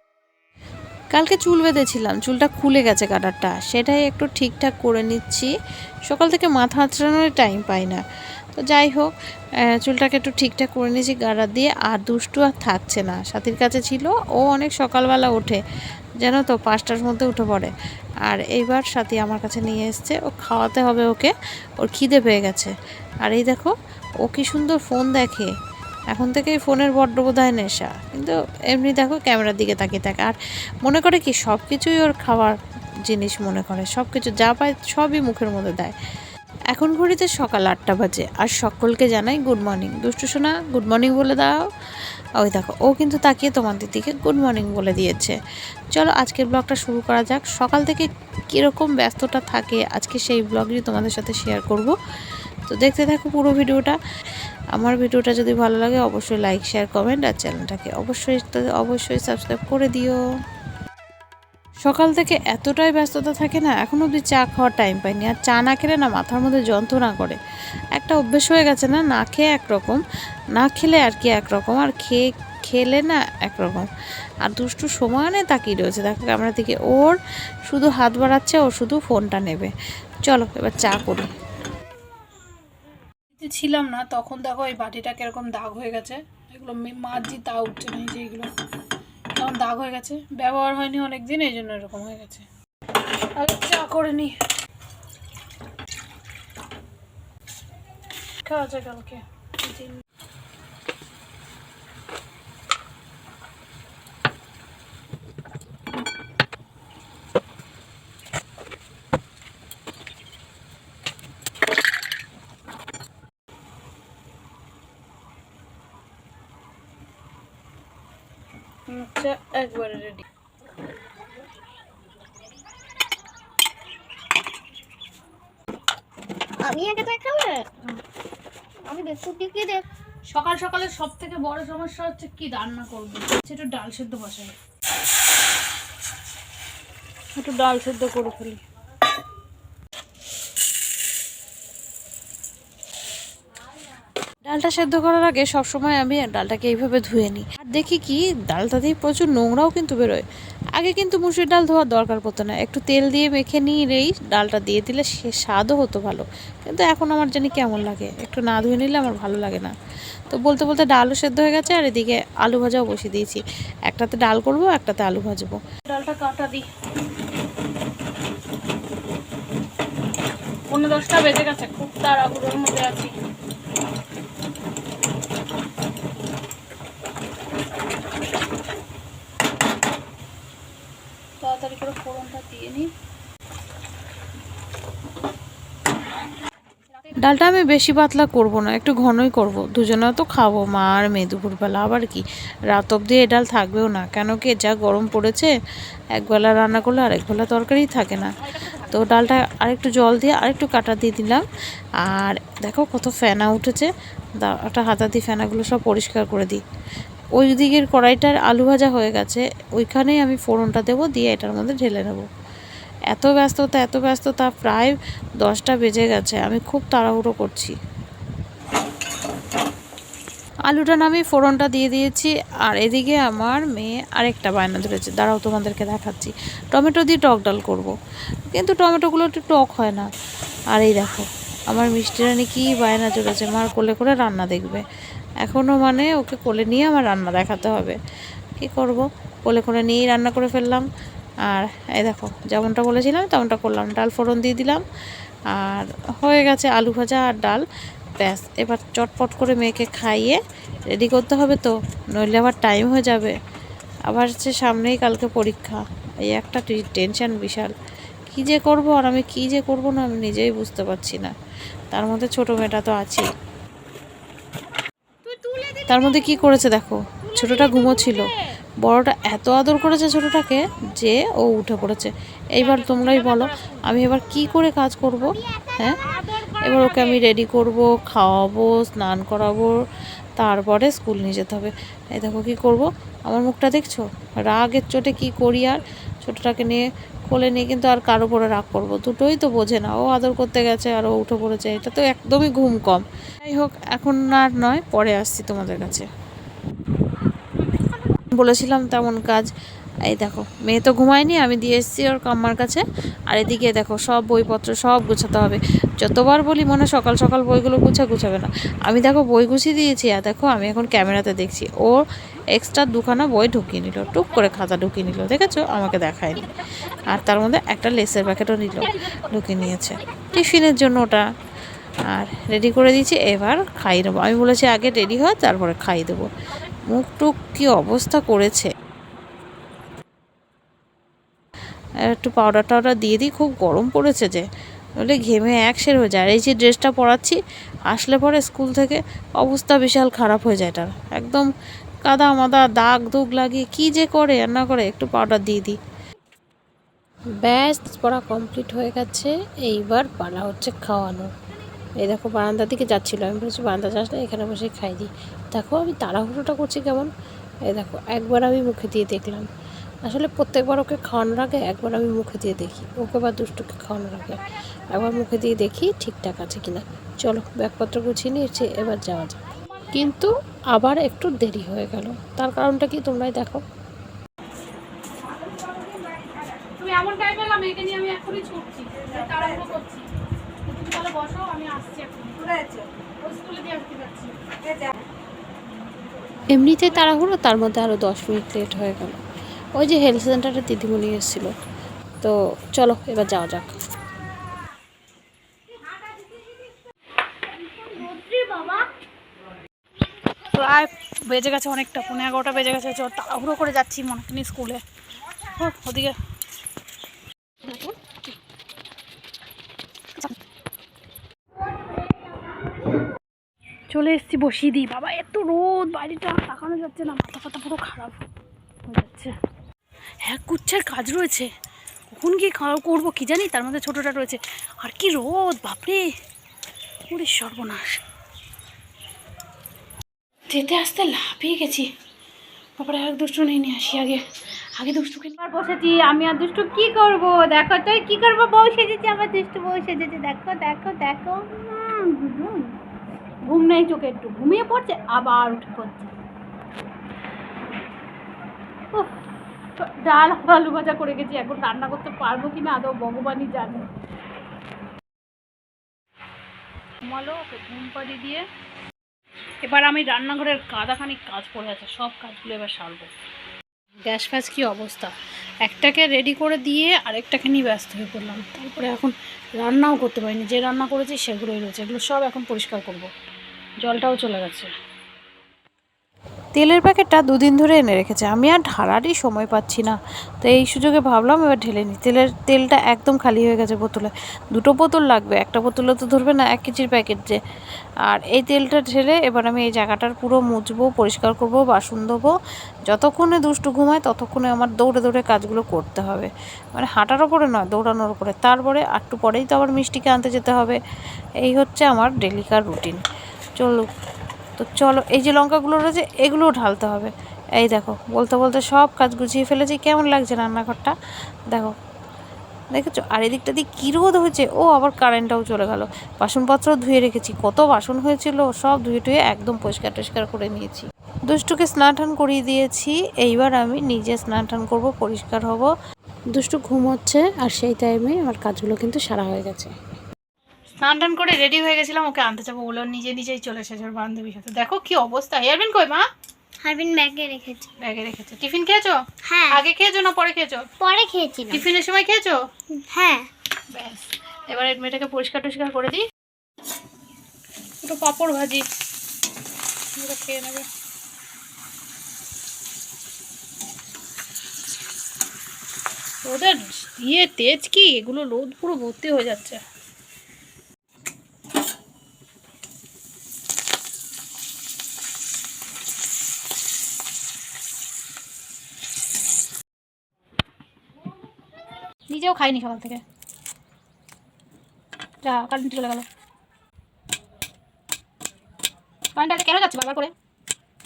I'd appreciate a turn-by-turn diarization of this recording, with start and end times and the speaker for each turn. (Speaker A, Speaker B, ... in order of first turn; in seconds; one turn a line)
Speaker A: 1.1-5.5
Speaker A: 6.1-8.0
Speaker A: 8.5-9.1
Speaker A: 9.7-15.6
Speaker A: 16.2-17.7
Speaker A: 18.2-25.5
Speaker A: 26.1-35.9
Speaker A: 36.7-41.6
Speaker A: 42.4-45.4
Speaker A: 45.9-51.9
Speaker A: 52.7-54.0
Speaker A: 54.8-60.2
Speaker A: 61.8-67.4
Speaker A: 67.9-70.0
Speaker A: 70.5-73.9
Speaker A: 74.4-79.7
Speaker A: 80.2-81.3
Speaker B: 83.3-88.5
Speaker B: 89.3-92.5
Speaker B: 93.3-94.3
Speaker B: 98.4-99.9
Speaker B: 118.9-120.2
Speaker C: 126.6-127.8
Speaker C: 128.8-129.8
Speaker B: 130.3-134.6
Speaker B: 137.3-138.6
Speaker A: 144.4-159.7
Speaker A: 160.3-165.6
Speaker B: 165.8-166.7
Speaker B: 170.7-173.1
Speaker B: 181.4-182.9
Speaker A: 187.2-195.5
Speaker A: 196.1-201.4
Speaker A: 202.0-206.6
Speaker A: 207.3-212.2
Speaker A: 213.1-217.8
Speaker A: 220.7-227.9
Speaker A: 228.5-230.1
Speaker A: 230.7-234.9
Speaker A: 235.4-238.0
Speaker A: 238.6-240.8
Speaker A: 241.5-244.8
Speaker A: 245.5-247.6
Speaker A: 248.2-250.4
Speaker A: 250.9-253.3
Speaker A: 254.1-257.7
Speaker A: 258.3-261.3
Speaker A: 261.9-263.3
Speaker B: 265.3-265.7
Speaker A: 265.8-279.8
Speaker B: 276.1-277.2
Speaker A: 280.4-296.1
Speaker A: 298.3-299.5
Speaker A: 300.1-312.0
Speaker A: 312.5-321.2
Speaker A: 322.1-328.7
Speaker A: 332.1-334.4
Speaker A: 335.0-337.4
Speaker A: 337.9-341.5
Speaker A: 342.0-345.8
Speaker A: 347.4-351.3
Speaker A: 352.0-357.1
Speaker A: 357.7-359.5
Speaker A: 360.1-364.4
Speaker A: 364.9-369.4
Speaker A: 369.9-373.6
Speaker B: 375.4-380.1
Speaker B: 380.6-382.7
Speaker B: 383.2-384.4
Speaker A: 386.5-389.2
Speaker A: 389.7-391.5
Speaker A: 392.2-393.7
Speaker C: 398.4-398.8
Speaker B: 400.5-404.8
Speaker B: 405.5-406.2
Speaker B: 407.6-408.3
Speaker B: 413.9-418.2
Speaker B: 418.9-419.3
Speaker B: 420.2-421.5
Speaker B: 422.1-426.1
Speaker B: 427.1-428.0
Speaker B: 430.5-431.9
Speaker B: 432.8-434.2
Speaker B: 434.8-442.8
Speaker B: 443.5-446.1
Speaker B: 448.9-453.9
Speaker B: 457.0-458.4
Speaker B: 459.6-463.1
Speaker B: 464.0-465.1
Speaker B: 465.6-473.1
Speaker B: 473.8-474.7
Speaker A: 476.5-487.4
Speaker A: 488.1-492.3
Speaker A: 492.9-500.8
Speaker A: 501.4-503.0
Speaker A: 503.6-503.9
Speaker A: 504.6-510.9
Speaker A: 512.7-525.7
Speaker A: 526.3-529.7
Speaker B: 530.8-536.0
Speaker C: 536.6-537.7
Speaker B: 537.8-540.7
Speaker C: 539.2-539.6
Speaker C: 540.8-541.6
Speaker B: 541.5-542.4
Speaker C: 542.9-543.3
Speaker B: 543.7-546.0
Speaker B: 547.8-548.6
Speaker B: 549.9-550.7
Speaker B: 556.2-559.6
Speaker B: 572.1-573.0
Speaker B: 575.2-576.0
Speaker B: 579.1-580.1